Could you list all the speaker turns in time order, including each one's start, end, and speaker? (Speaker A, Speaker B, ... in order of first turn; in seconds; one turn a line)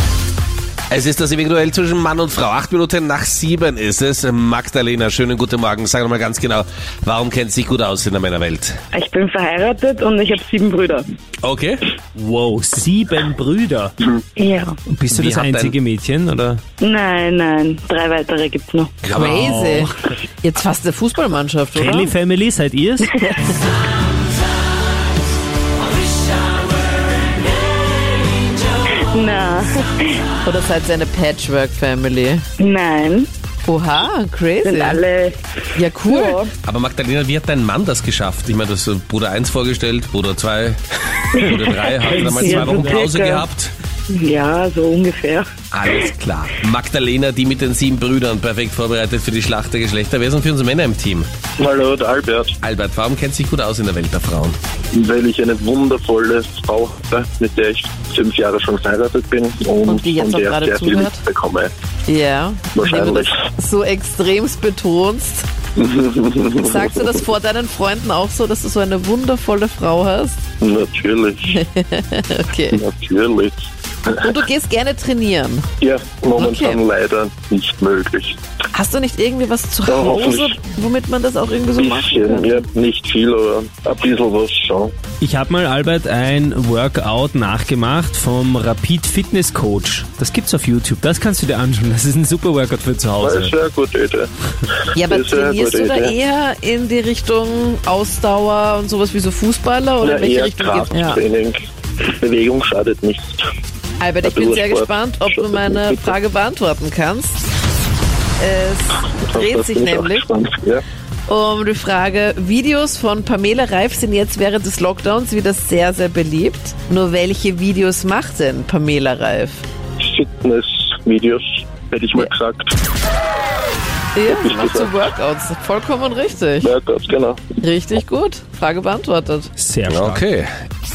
Speaker A: 0.9-8.8
Speaker B: 8.9-11.1
Speaker A: 11.4-11.8
Speaker C: 12.2-14.0
Speaker B: 14.4-14.8
Speaker C: 14.9-16.6
Speaker A: 15.1-15.8
Speaker B: 16.8-19.1
Speaker A: 19.1-19.4
Speaker D: 19.1-22.1
Speaker C: 19.1-20.2
Speaker C: 21.8-23.2
Speaker D: 23.2-23.5
Speaker B: 29.2-29.8
Speaker D: 30.4-32.4
Speaker B: 32.6-33.3
Speaker D: 33.7-35.0
Speaker B: 34.6-35.4
Speaker D: 35.8-36.4
Speaker B: 36.2-36.5
Speaker A: 36.6-43.7
Speaker B: 41.4-43.5
Speaker C: 42.0-43.1
Speaker B: 44.1-45.5
Speaker A: 45.7-51.3
Speaker E: 51.6-52.5
Speaker A: 52.6-54.6
Speaker E: 54.9-61.7
Speaker D: 59.8-61.2
Speaker D: 62.1-65.5
Speaker E: 62.8-63.4
Speaker E: 65.8-67.1
Speaker D: 66.5-70.5
Speaker E: 70.6-71.6
Speaker D: 71.5-72.8
Speaker E: 72.7-74.2
Speaker D: 74.2-75.7
Speaker E: 75.8-78.4
Speaker D: 76.4-76.8
Speaker D: 78.7-82.6
Speaker E: 79.9-80.6
Speaker E: 81.8-84.9
Speaker C: 85.2-93.5
Speaker E: 93.2-94.3
Speaker D: 94.9-101.2
Speaker E: 95.0-96.2
Speaker E: 100.0-103.5
Speaker D: 104.0-107.5
Speaker E: 104.2-106.1
Speaker D: 108.4-110.3
Speaker E: 109.1-110.8
Speaker D: 111.3-119.6
Speaker E: 120.0-122.8
Speaker D: 124.2-126.7
Speaker E: 124.3-125.1
Speaker E: 126.6-127.6
Speaker D: 127.6-129.5
Speaker C: 129.6-130.3
Speaker A: 129.9-130.5